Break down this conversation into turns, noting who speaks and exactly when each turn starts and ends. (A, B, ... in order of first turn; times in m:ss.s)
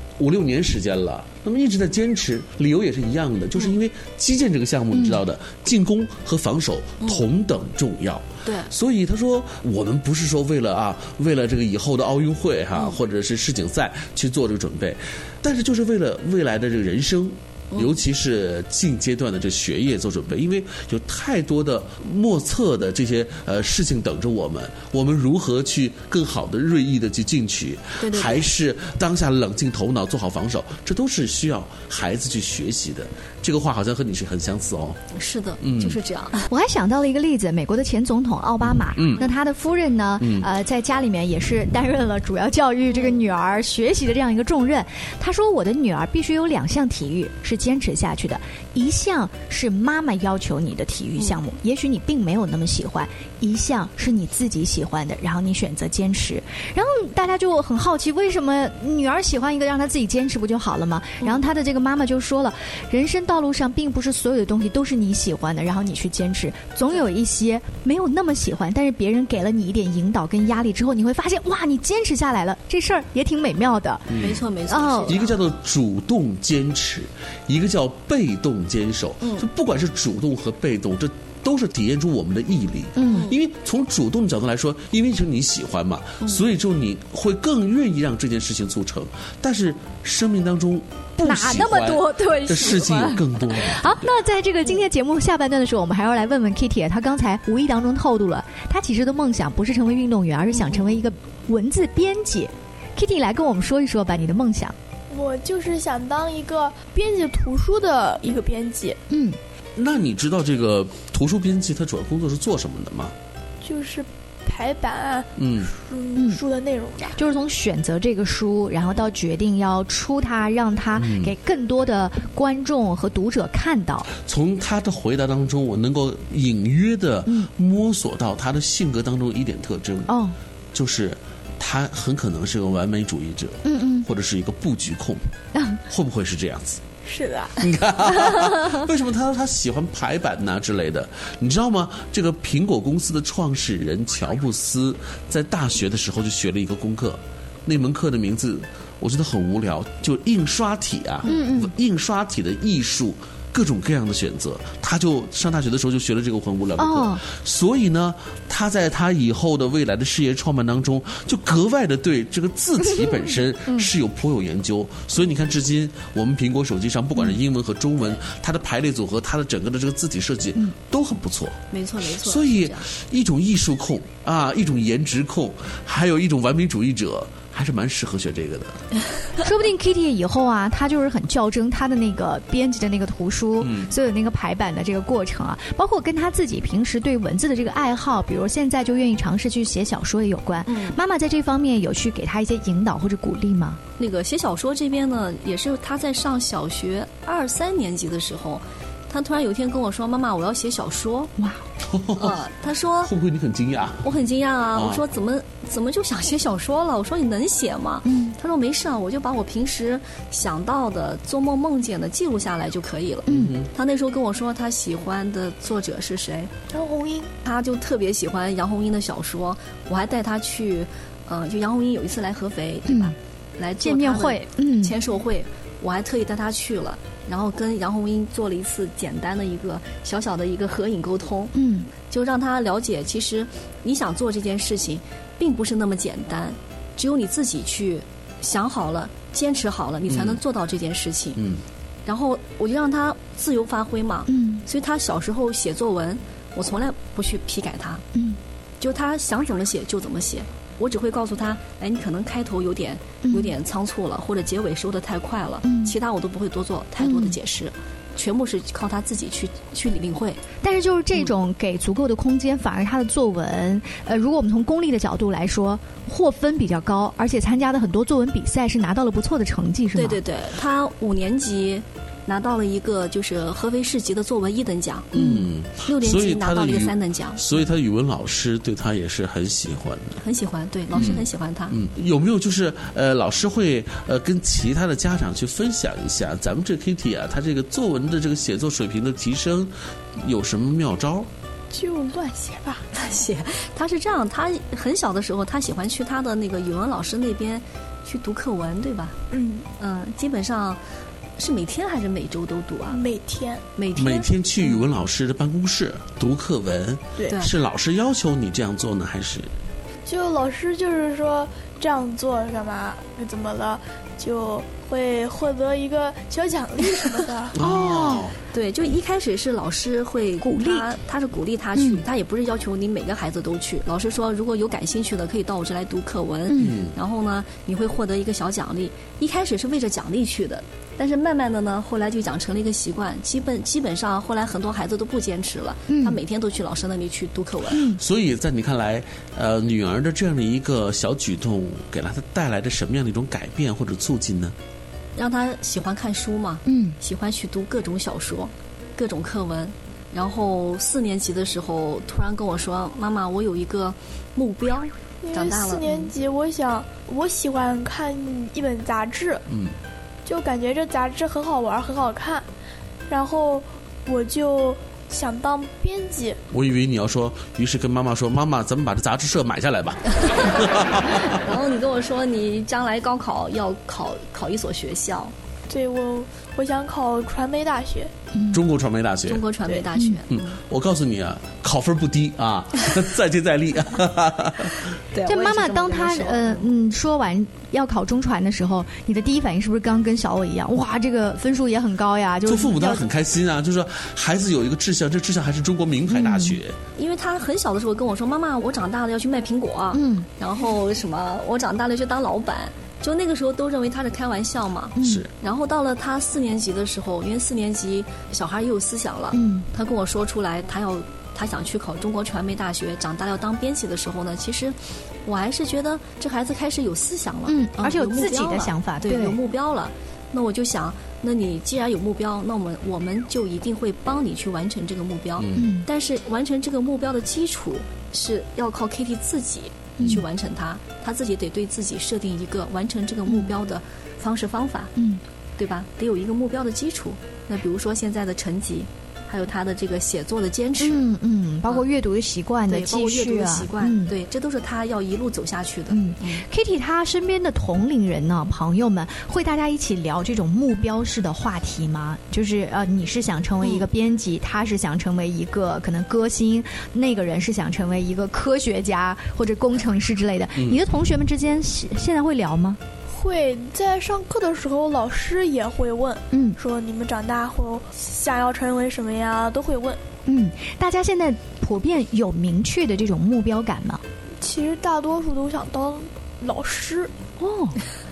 0:00.2-0:35.0 A
0:04.9-0:05.2 B
0:08.4-0:08.7 C
0:28.0-0:28.4 C
0:35.1-0:36.5 C
0:35.6-0:36.0 A
0:36.5-1:15.2 B
0:38.8-0:39.2 A
0:40.2-0:40.5 A
0:42.9-0:43.2 C
1:14.1-1:14.4 A
1:14.2-1:15.3 C
1:15.1-1:34.0 A
1:23.0-1:23.3 B
1:31.2-1:44.7 B
1:45.1-1:49.0 D
1:49.1-1:49.4 B
1:49.8-1:53.1 A
1:53.6-1:57.2 D
1:55.4-1:55.7 A
1:56.1-1:56.4 B
1:57.2-2:04.1 B
2:01.0-2:01.3 A
2:04.2-2:10.1 A
2:10.1-2:10.4 B
2:10.7-2:15.3 A
2:13.6-2:14.1 B
2:15.5-2:15.8 B
2:15.9-2:16.8 A
2:17.0-2:17.6 D
2:17.6-2:58.8 A
2:31.2-2:31.7 B
2:36.8-2:37.2 B
2:42.8-2:43.1 B
2:51.7-2:52.9 C
2:59.4-3:13.8 B
3:03.6-3:03.9 A
3:10.6-3:11.0 C
3:14.0-3:21.3 C
3:21.4-3:21.6 B
3:21.8-3:22.4 A
3:22.2-3:23.1 C
3:23.0-3:24.1 A
3:24.0-3:36.5 C
3:24.7-3:25.0 A
3:28.0-3:28.4 B
3:33.2-3:33.7 A
3:33.3-3:33.6 B
3:36.7-3:37.3 D
3:37.4-3:51.5 C
3:42.9-3:43.1 B
3:43.8-3:44.9 B
3:51.5-3:51.9 B
3:52.1-4:01.4 C
4:00.1-4:00.4 A
4:01.4-4:01.6 A
4:02.0-4:08.0 C
4:04.3-4:04.6 B
4:08.8-4:20.4 C
4:13.2-4:13.5 B
4:15.6-4:16.0 B
4:17.0-4:17.4 B
4:20.6-4:30.2 B
4:29.9-4:35.1 C
4:35.1-4:40.2 A
4:35.1-4:35.5 B
4:35.8-4:37.4 C
4:40.2-4:41.8 C
4:40.9-4:51.3 A
4:51.7-4:52.8 D
4:52.9-4:59.2 C
4:59.3-4:59.7 D
4:59.8-5:00.8 C
5:01.4-5:03.0 C
5:02.9-5:03.6 D
5:03.8-5:04.3 C
5:04.0-5:09.5 A
5:10.0-5:17.6 D
5:17.6-5:18.4 A
5:17.6-5:18.3 B
5:18.5-5:37.9 C
5:20.4-5:20.9 B
5:21.7-5:22.0 B
5:26.5-5:26.8 B
5:26.6-5:26.9 A
5:35.9-5:36.2 B
5:37.7-5:38.0 B
5:37.9-5:44.5 A
5:45.2-5:56.1 C
5:46.6-5:47.0 B
5:55.2-5:59.4 D
5:59.5-5:59.7 A
6:00.2-6:02.5 D
6:03.1-6:06.4 D
6:06.5-6:11.4 A
6:11.3-6:15.3 C
6:15.7-6:18.1 D
6:18.3-6:18.6 B
6:18.5-6:19.4 A
6:19.2-6:20.6 C
6:20.3-6:24.8 A
6:25.1-6:26.7 C
6:25.2-6:33.1 B
6:32.4-6:36.8 A
6:36.1-6:36.6 B
6:37.0-7:14.9 C
6:39.9-6:40.3 B
6:45.0-6:45.2 B
6:45.0-6:45.3 A
6:49.3-6:49.7 B
6:57.4-6:59.4 B
7:05.4-7:05.7 A
7:05.5-7:05.9 B
7:10.0-7:10.2 B
7:15.0-7:15.2 B
7:15.6-7:21.0 C
7:20.8-7:24.1 B
7:22.7-7:26.4 C
7:25.9-7:42.8 B
7:43.1-7:50.0 D
7:46.3-7:46.6 B
7:50.2-7:54.0 B
7:54.4-7:57.1 D
7:57.4-7:57.8 B